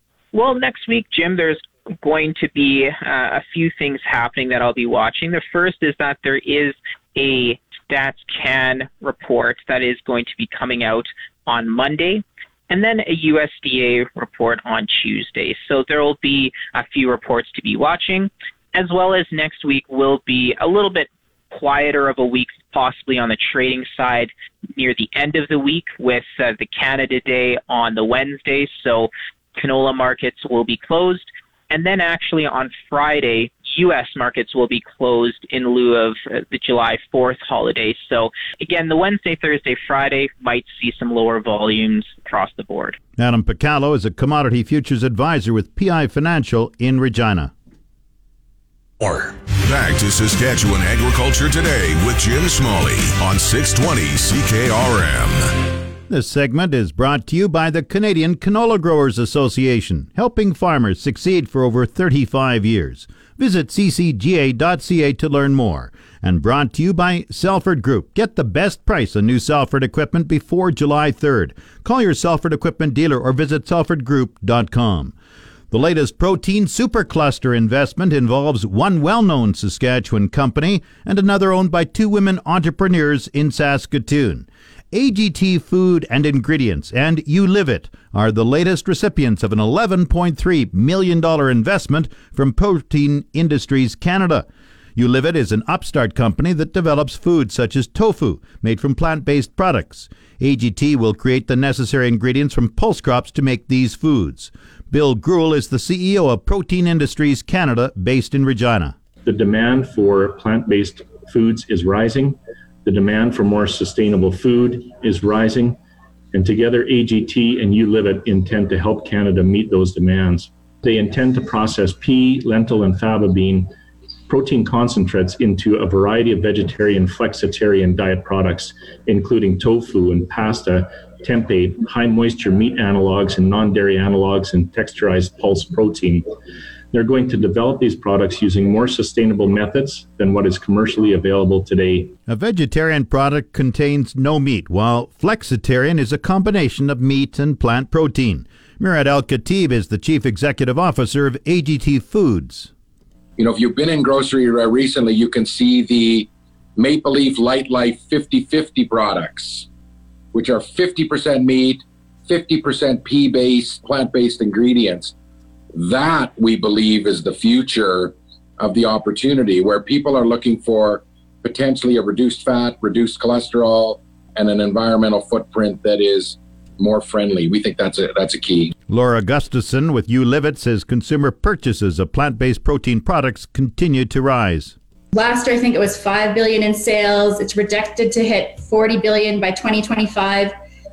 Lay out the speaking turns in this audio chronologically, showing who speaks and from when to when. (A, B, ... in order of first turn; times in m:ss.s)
0:00.3-0:43.0 A
0:43.2-0:47.5 B
0:49.6-0:55.5 C
0:56.1-1:15.1 B
1:15.7-1:49.0 B
1:49.2-1:55.8 D
1:56.3-2:03.7 D
2:04.3-2:16.3 D
2:16.9-2:22.1 D
2:22.3-2:32.7 B
2:33.4-2:39.7 E
2:40.3-2:45.1 E
2:45.7-2:58.7 E
2:58.9-3:04.7 B
3:05.1-3:10.5 F